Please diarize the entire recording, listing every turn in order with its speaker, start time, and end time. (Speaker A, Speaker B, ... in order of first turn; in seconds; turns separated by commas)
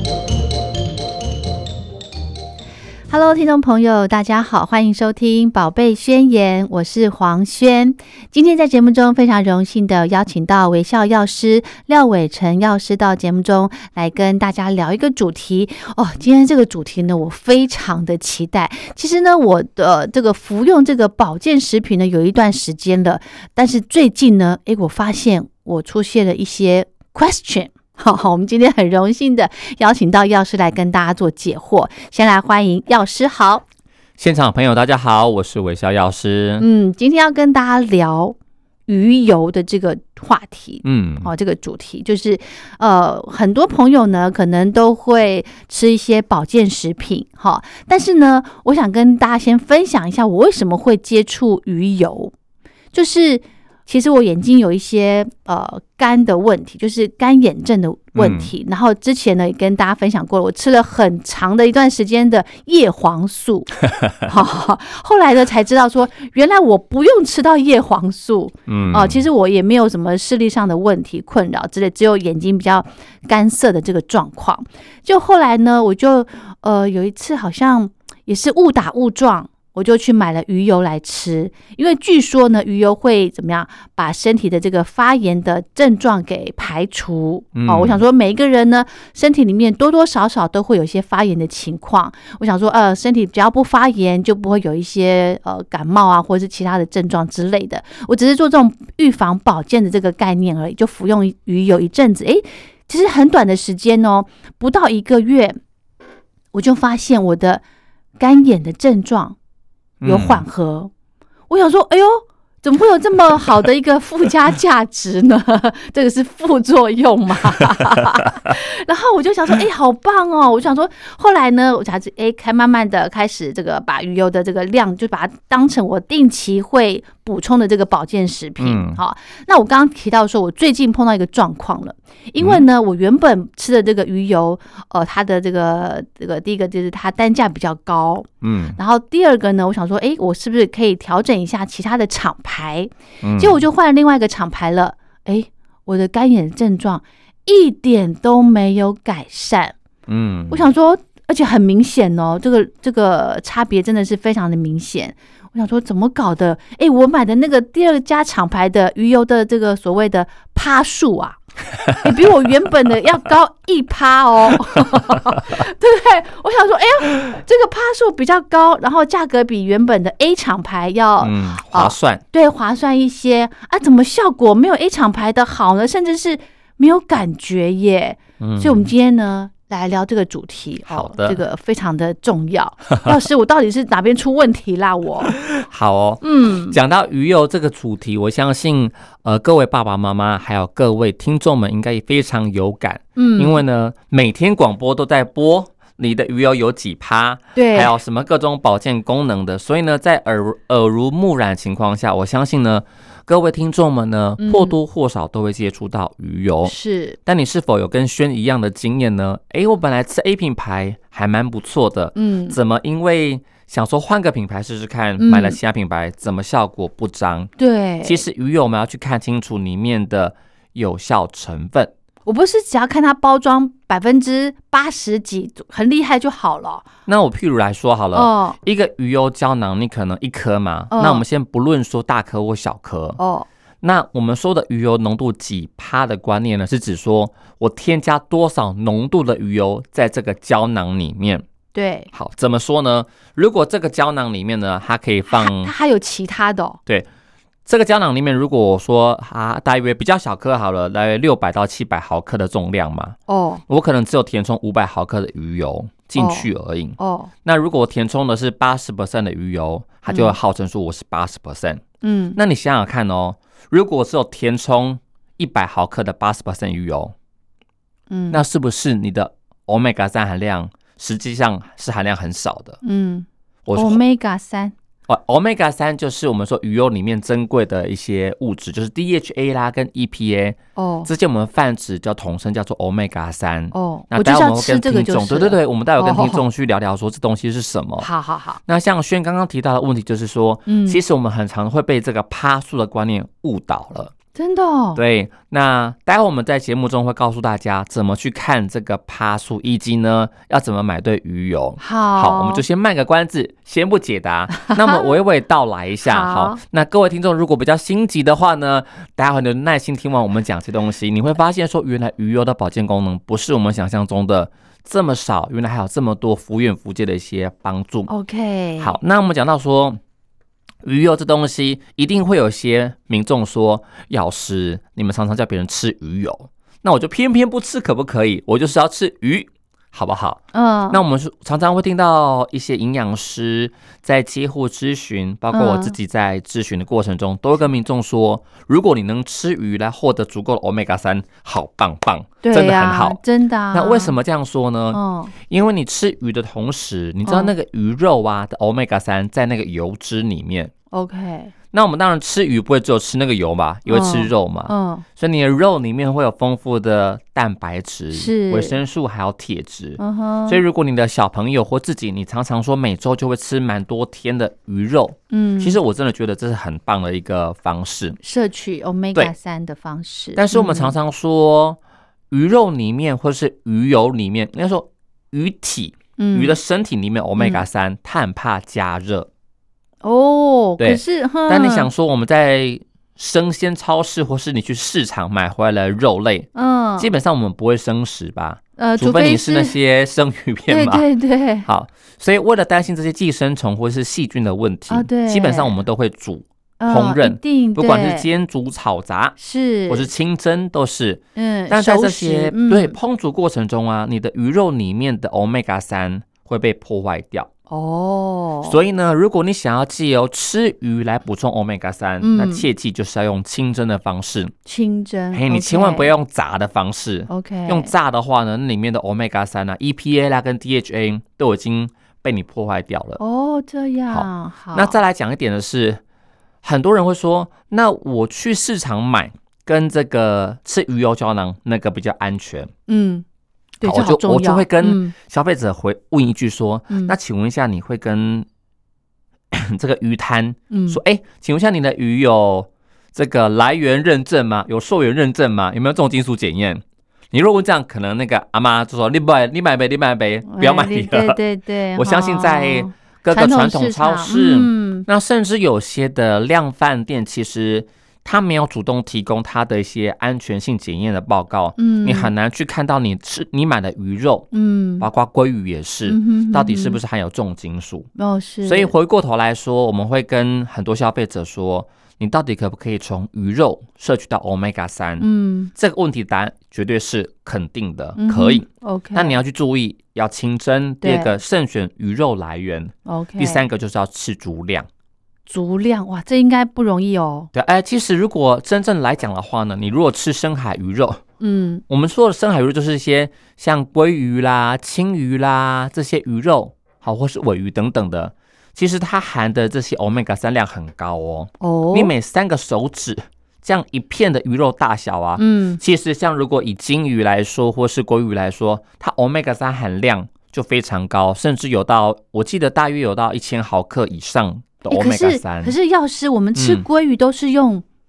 Speaker A: 3.1-33.6, Speaker B: 34.2-36.7, Speaker A: 36.6-38.4, Speaker A: 38.9-52.3, Speaker B: 40.9-41.3, Speaker A: 52.9-105.6, Speaker B: 58.1-58.5, Speaker B: 68.7-69.2, Speaker B: 87.5-88.0, Speaker A: 106.5-107.6, Speaker A: 108.2-109.4, Speaker B: 110.0-110.5, Speaker A: 110.0-110.9, Speaker A: 111.5-149.8, Speaker B: 128.6-129.0, Speaker B: 132.4-132.6, Speaker B: 138.4-138.8, Speaker B: 143.2-143.6, Speaker B: 150.1-150.7, Speaker A: 150.5-161.4, Speaker A: 161.9-185.4, Speaker B: 171.2-172.2, Speaker B: 178.4-178.9, Speaker B: 180.8-181.4, Speaker B: 185.3-217.5, Speaker A: 186.2-186.8, Speaker A: 193.2-193.6, Speaker A: 197.6-197.9, Speaker A: 204.4-204.8, Speaker A: 206.7-207.2, Speaker A: 212.2-212.6, Speaker A: 215.2-215.6, Speaker A: 217.6-218.2, Speaker B: 218.0-221.9, Speaker A: 222.3-226.9, Speaker B: 227.1-233.2, Speaker A: 228.1-228.6, Speaker A: 230.9-231.2, Speaker A: 233.2-233.5, Speaker B: 233.8-241.4, Speaker A: 241.7-242.1, Speaker B: 242.1-245.7, Speaker A: 245.3-246.8, Speaker B: 247.7-253.2, Speaker A: 253.3-253.6, Speaker B: 253.7-261.8, Speaker A: 256.2-257.3, Speaker A: 260.1-260.4, Speaker A: 262.0-262.4, Speaker B: 262.4-267.1, Speaker A: 268.1-268.4, Speaker B: 268.3-272.8, Speaker A: 272.8-274.7, Speaker B: 273.7-274.0, Speaker B: 275.1-288.1, Speaker A: 280.8-281.1, Speaker A: 283.7-286.4, Speaker A: 288.0-288.6, Speaker B: 288.7-294.1, Speaker A: 290.7-291.0, Speaker A: 294.4-295.0, Speaker B: 295.0-318.1, Speaker A: 301.8-302.6, Speaker A: 304.6-305.1, Speaker A: 306.1-306.6, Speaker A: 318.1-318.9, Speaker B: 318.8-320.0, Speaker B: 320.8-343.2, Speaker A: 330.5-331.0, Speaker A: 335.5-335.9, Speaker A: 342.4-344.2, Speaker B: 343.7-350.7, Speaker A: 344.9-345.3, Speaker A: 347.2-347.5, Speaker A: 350.9-351.5, Speaker B: 351.7-368.2, Speaker A: 353.9-355.1, Speaker A: 358.1-358.8, Speaker A: 360.0-360.6, Speaker A: 365.3-365.8, Speaker A: 368.2-370.9, Speaker B: 370.4-371.8, Speaker B: 372.3-379.3, Speaker A: 376.2-376.6, Speaker A: 377.4-377.6, Speaker A: 380.0-381.9, Speaker B: 380.8-391.1, Speaker A: 386.6-387.1, Speaker A: 388.8-389.8, Speaker A: 390.7-391.7, Speaker B: 391.6-399.4, Speaker A: 394.9-395.8, Speaker A: 396.8-398.3, Speaker A: 399.4-400.1, Speaker B: 399.9-407.5, Speaker A: 401.4-403.0, Speaker A: 407.7-408.8, Speaker B: 408.6-414.5, Speaker A: 412.2-412.7, Speaker A: 414.7-416.1, Speaker B: 415.3-423.2, Speaker A: 417.3-417.9, Speaker A: 423.2-424.9, Speaker B: 424.1-426.0, Speaker B: 426.6-432.7, Speaker A: 432.9-433.2, Speaker A: 433.8-435.1, Speaker B: 433.8-438.5, Speaker A: 436.9-437.1, Speaker B: 439.5-451.4, Speaker A: 440.7-441.0, Speaker A: 450.4-455.1, Speaker B: 451.9-468.1, Speaker A: 461.8-462.3, Speaker A: 464.5-465.1, Speaker A: 466.1-467.0, Speaker A: 468.2-468.9, Speaker B: 468.6-484.9, Speaker A: 475.2-475.7, Speaker A: 478.2-479.4, Speaker A: 481.0-481.3, Speaker A: 483.1-483.7, Speaker A: 485.5-487.5, Speaker B: 487.5-491.2, Speaker A: 491.4-491.8, Speaker B: 491.9-515.8, Speaker A: 501.6-502.1, Speaker A: 505.4-505.8, Speaker A: 514.9-517.8, Speaker B: 516.6-516.9